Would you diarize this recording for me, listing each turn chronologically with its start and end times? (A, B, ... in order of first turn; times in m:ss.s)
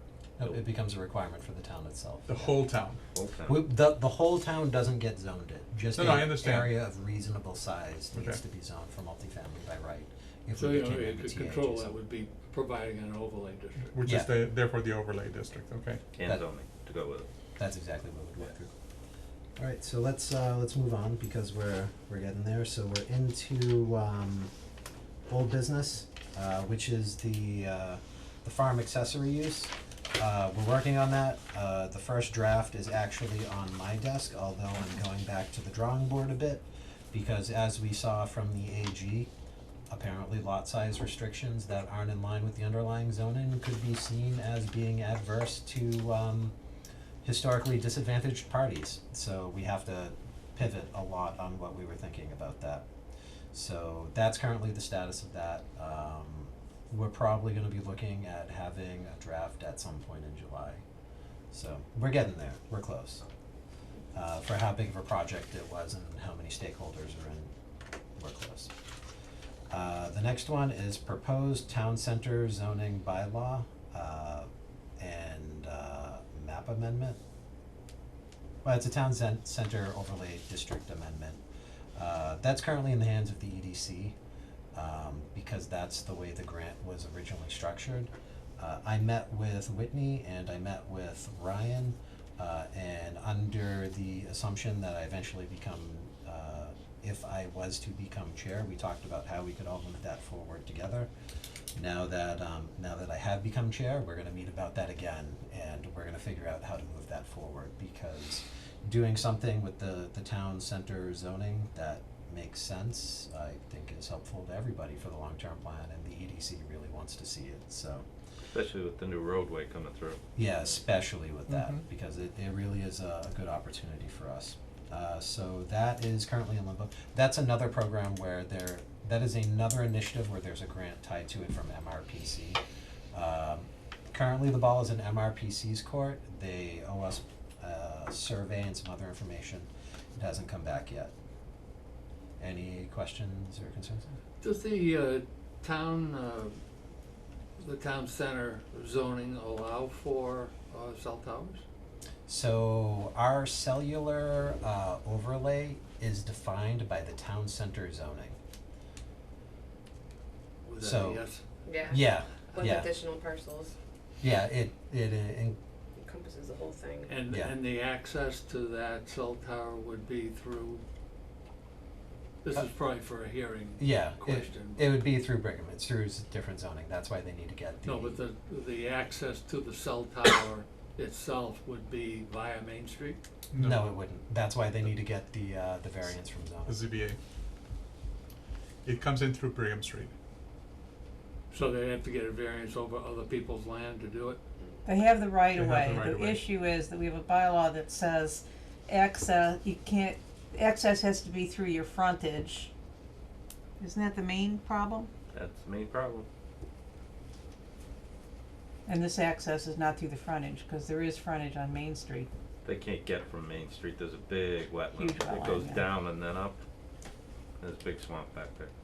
0:00.4-0:02.6 A
0:02.3-0:03.0 B
0:03.1-0:03.6 C
0:03.5-0:12.0 A
0:05.9-0:06.7 B
0:08.1-0:08.4 B
0:10.6-0:13.9 D
0:13.8-0:16.0 B
0:14.0-0:14.3 A
0:16.1-0:17.3 C
0:17.6-0:18.7 A
0:19.6-0:24.5 A
0:25.3-0:39.3 A
0:39.9-0:46.6 A
0:47.2-0:52.8 A
0:53.5-1:00.8 A
1:01.5-1:03.2 A
1:04.1-1:07.5 A
1:08.2-1:08.7 A
1:09.7-1:17.2 A
1:18.6-1:21.4 A
1:22.0-1:24.2 A
1:24.7-1:41.1 A
1:41.8-1:58.1 A
1:58.5-2:00.2 C
2:00.4-2:12.6 A
2:01.5-2:01.8 B
2:13.1-2:21.1 A
2:22.4-2:24.1 A
2:24.4-2:26.6 D
2:27.6-2:31.6 D
2:32.3-2:38.4 A
2:40.6-2:41.4 D
2:40.8-2:41.2 A
2:41.7-2:43.7 E
2:41.9-2:42.9 A
2:44.2-2:45.6 A
2:46.0-2:47.1 E
2:47.1-2:50.8 D
2:47.3-2:47.6 A
2:52.4-2:54.9 D
2:53.8-2:58.2 A
2:57.8-3:03.2 D
3:03.5-3:03.9 B
3:03.6-3:06.8 A
3:06.7-3:07.2 B
3:08.8-3:10.1 B
3:11.5-3:14.4 D
3:14.8-3:22.7 F
3:15.5-3:16.4 B
3:23.8-3:25.1 F
3:25.3-3:26.3 C
3:28.9-3:32.3 F
3:32.6-3:36.6 C
3:35.0-3:35.9 F
3:37.6-3:38.7 C